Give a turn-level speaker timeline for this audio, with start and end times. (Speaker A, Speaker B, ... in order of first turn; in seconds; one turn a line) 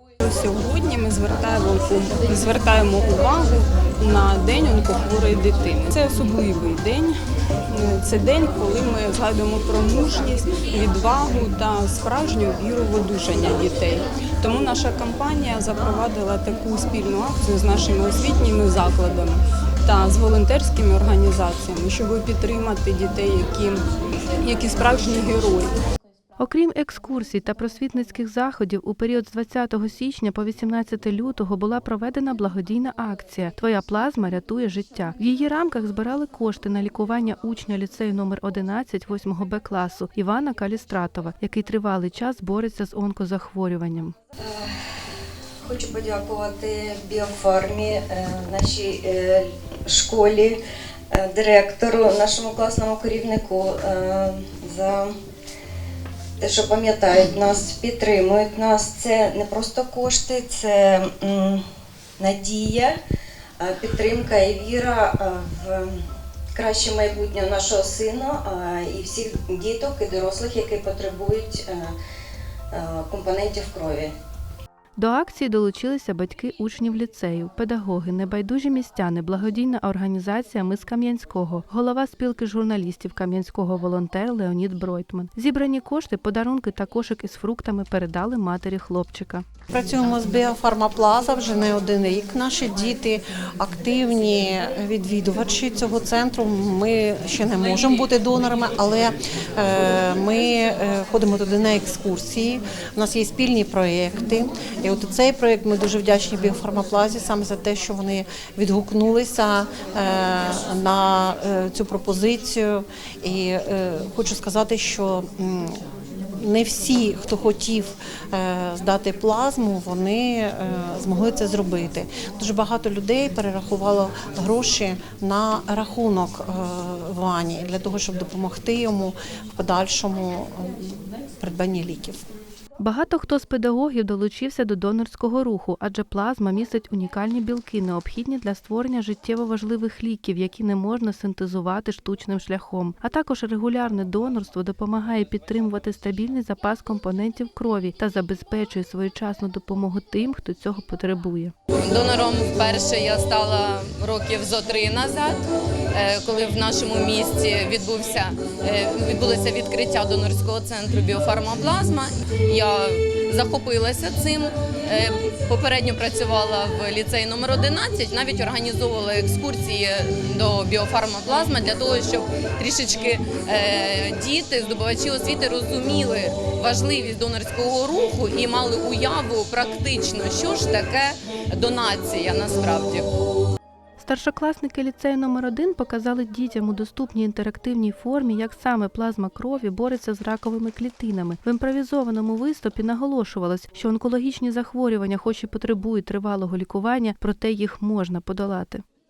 Speaker A: 0.2-7.1
Speaker A: 7.7-23.8
Speaker A: 24.4-25.7
Speaker B: 26.4-44.1
Speaker C: 44.4-44.8
Speaker C: 45.6-50.6
Speaker C: 51.1-55.1
Speaker C: 56.4-61.6
Speaker C: 62.2-62.9
Speaker C: 63.6-66.0
Speaker C: 66.5-71.9
Speaker C: 72.7-74.1
Speaker B: 75.0-89.4
Speaker D: 89.7-115.8
Speaker D: 116.4-132.2
Speaker B: 132.8-151.5
Speaker E: 151.9-155.4
Speaker E: 155.9-183.1
Speaker B: 184.0-198.8